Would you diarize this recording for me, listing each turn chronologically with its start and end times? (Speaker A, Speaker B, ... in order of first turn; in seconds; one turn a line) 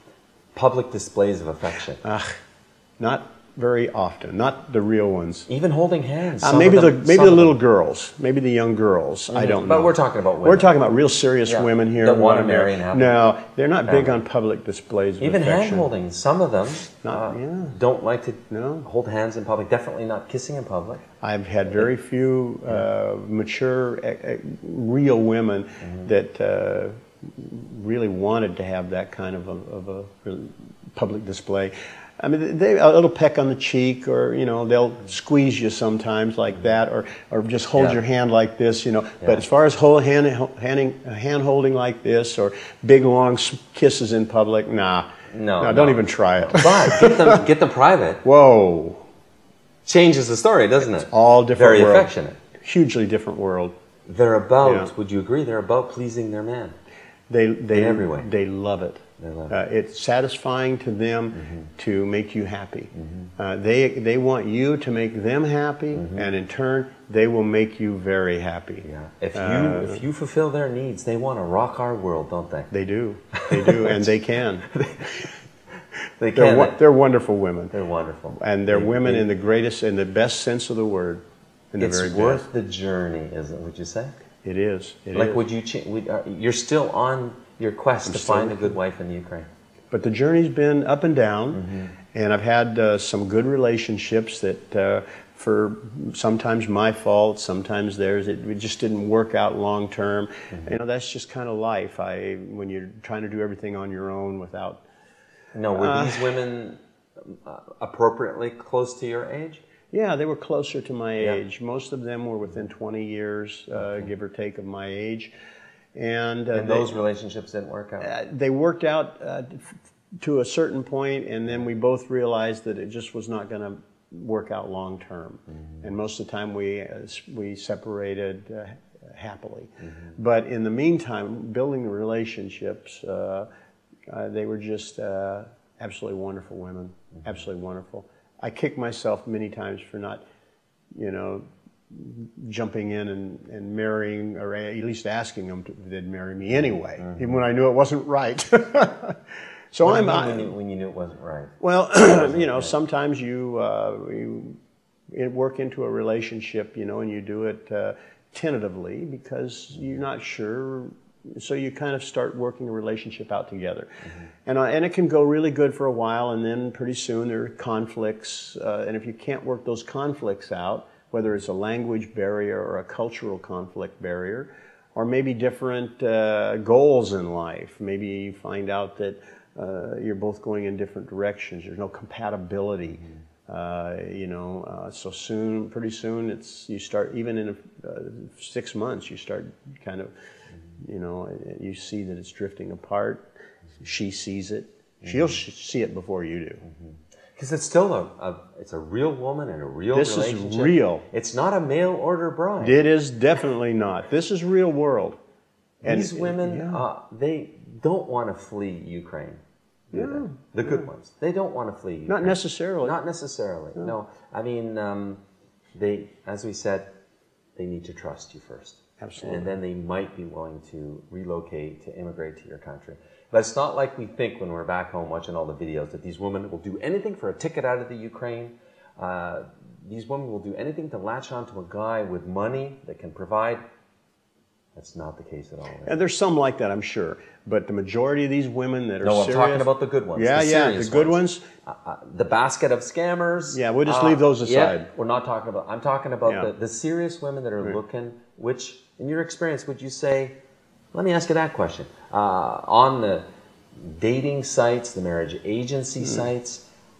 Speaker A: 0.5-2.0
Speaker B: 2.0-2.3
Speaker B: 3.0-5.5
Speaker A: 5.5-7.5
Speaker B: 6.4-15.9
Speaker A: 9.3-10.7
Speaker A: 11.4-13.1
Speaker A: 13.8-14.2
Speaker A: 15.2-21.0
Speaker B: 17.0-17.8
Speaker B: 18.5-18.9
Speaker B: 21.2-45.1
Speaker A: 25.8-26.1
Speaker A: 45.3-48.2
Speaker B: 45.6-47.4
Speaker B: 48.2-49.0
Speaker A: 49.9-52.4
Speaker B: 50.8-52.1
Speaker B: 52.6-53.7
Speaker A: 54.1-56.7
Speaker B: 54.6-54.9
Speaker B: 57.3-70.0
Speaker A: 57.7-58.3
Speaker A: 59.2-59.5
Speaker A: 61.4-61.6
Speaker A: 63.0-63.3
Speaker A: 65.9-66.3
Speaker A: 68.8-72.7
Speaker B: 72.7-74.7
Speaker A: 73.3-74.1
Speaker A: 74.7-75.3
Speaker A: 76.2-76.8
Speaker B: 76.3-77.7
Speaker A: 77.7-79.3
Speaker B: 78.3-82.4
Speaker A: 81.8-84.1
Speaker B: 84.4-85.4
Speaker A: 85.1-89.5
Speaker B: 88.0-88.8
Speaker B: 89.9-104.8
Speaker A: 91.5-91.9
Speaker A: 105.5-109.6
Speaker B: 105.7-106.3
Speaker B: 109.9-115.3
Speaker B: 115.9-116.9
Speaker A: 116.5-118.1
Speaker B: 118.0-133.5
Speaker B: 134.1-140.2
Speaker B: 140.9-149.2
Speaker A: 147.0-147.4
Speaker B: 149.7-150.5
Speaker A: 149.8-152.7
Speaker B: 151.6-154.6
Speaker B: 155.1-163.9
Speaker B: 164.4-190.1
Speaker B: 190.8-193.2
Speaker B: 193.8-196.6
Speaker A: 197.3-202.8
Speaker B: 199.9-201.1
Speaker B: 202.6-205.2
Speaker A: 205.8-209.4
Speaker B: 205.8-206.8
Speaker A: 209.9-215.2
Speaker B: 209.9-210.9
Speaker B: 212.1-212.9
Speaker A: 215.7-216.9
Speaker A: 217.6-233.6
Speaker B: 219.0-219.5
Speaker A: 234.7-235.9
Speaker B: 235.8-241.4
Speaker A: 239.0-250.3
Speaker B: 243.5-244.9
Speaker A: 250.9-253.2
Speaker A: 253.8-256.6